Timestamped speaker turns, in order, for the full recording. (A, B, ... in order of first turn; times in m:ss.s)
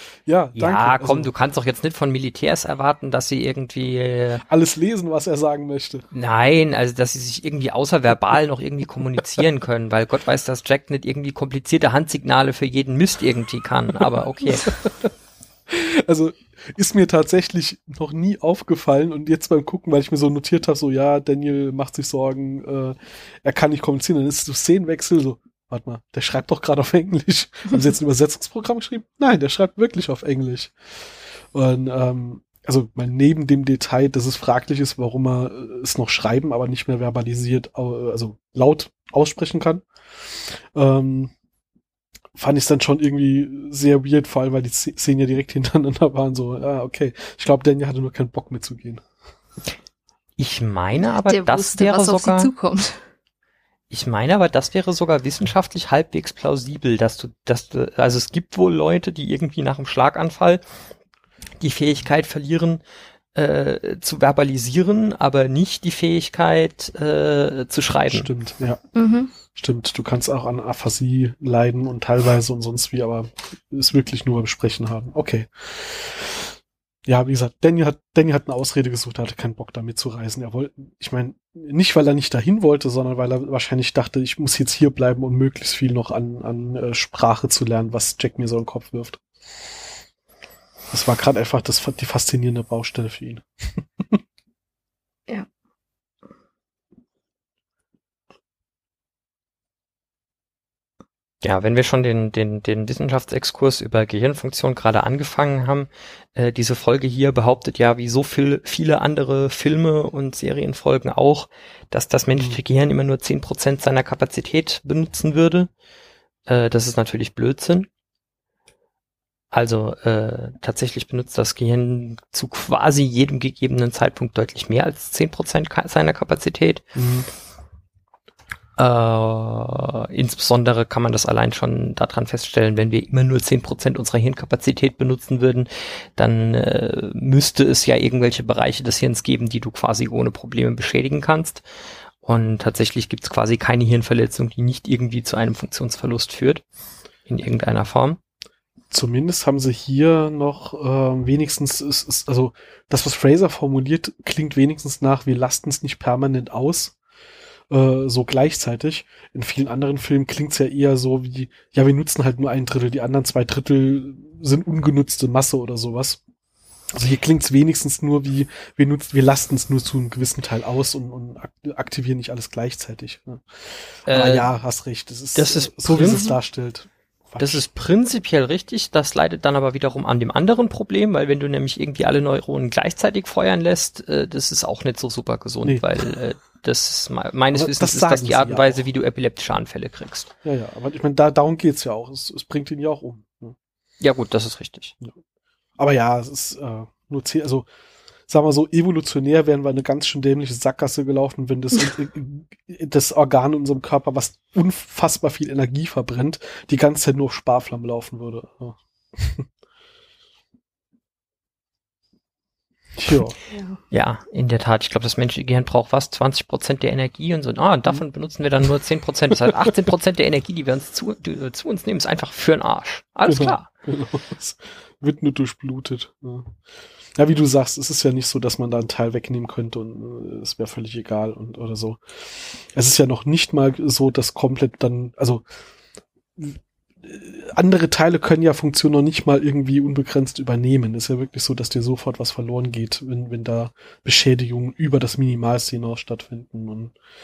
0:00.3-0:01.3 A
0:00.6-0:04.4 B
0:04.5-0:06.1 A
0:06.1-0:14.8 B
0:14.6-0:15.1 A
0:15.7-0:41.3 A
0:42.4-0:49.0 A
0:50.4-0:52.5 B
0:51.2-0:53.0 C
0:53.9-1:00.6 B
1:01.6-1:02.8 B
1:03.4-1:08.3 B
1:08.1-1:08.8 A
1:09.0-1:09.3 C
1:09.5-1:16.6 A
1:17.1-1:29.2 A
1:30.9-1:34.2 A
1:41.4-1:55.7 B
1:56.5-1:57.9 B
1:59.5-2:06.8 B
2:07.0-2:07.3 A
2:08.8-2:21.6 B
2:22.2-2:26.6 B
2:27.3-2:28.2 B
2:28.9-2:37.0 A
2:37.7-2:46.2 A
2:46.9-2:57.7 A
2:54.1-2:54.5 B
2:55.4-2:56.3 B
2:57.4-3:10.3 B
3:07.5-3:08.8 A
3:10.4-3:13.6 A
3:14.0-3:15.0 B
3:15.8-3:17.7 A
3:18.3-3:29.5 A
3:33.0-3:33.4 A
3:33.5-3:33.8 C
3:33.9-3:43.7 B
3:43.3-3:46.5 A
3:47.2-3:55.4 A
3:56.4-4:06.9 A